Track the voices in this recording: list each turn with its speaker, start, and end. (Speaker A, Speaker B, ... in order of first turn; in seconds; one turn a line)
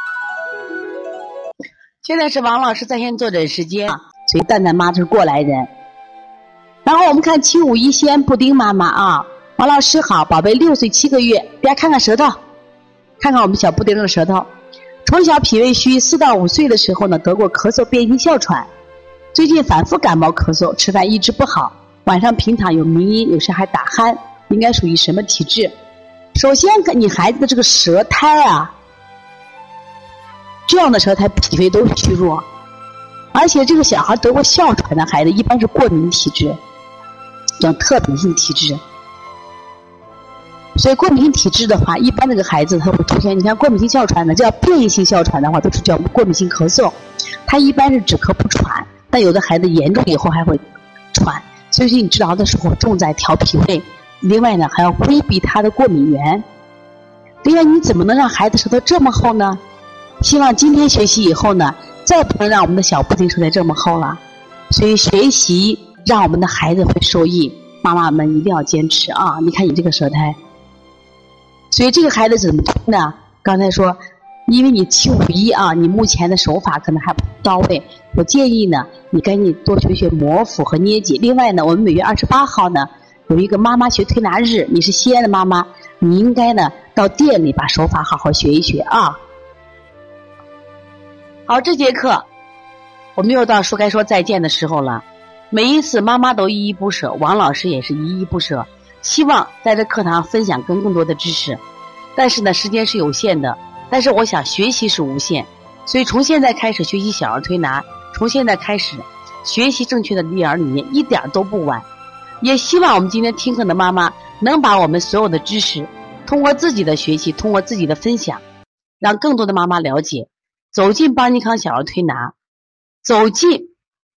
Speaker A: 2.0-5.7
Speaker A: 6.8-12.4
Speaker A: 13.2-14.5
Speaker A: 15.0-18.7
Speaker A: 19.3-25.7
Speaker A: 26.4-28.7
Speaker A: 30.7-32.5
Speaker A: 33.3-36.6
Speaker A: 37.6-38.8
Speaker A: 40.8-47.0
Speaker A: 47.5-56.5
Speaker A: 57.4-59.6
Speaker A: 60.2-64.2
Speaker A: 64.7-70.4
Speaker A: 71.7-89.2
Speaker A: 91.5-92.2
Speaker A: 93.2-101.6
Speaker A: 102.2-111.9
Speaker A: 112.4-118.4
Speaker A: 119.0-122.3
Speaker A: 123.0-123.7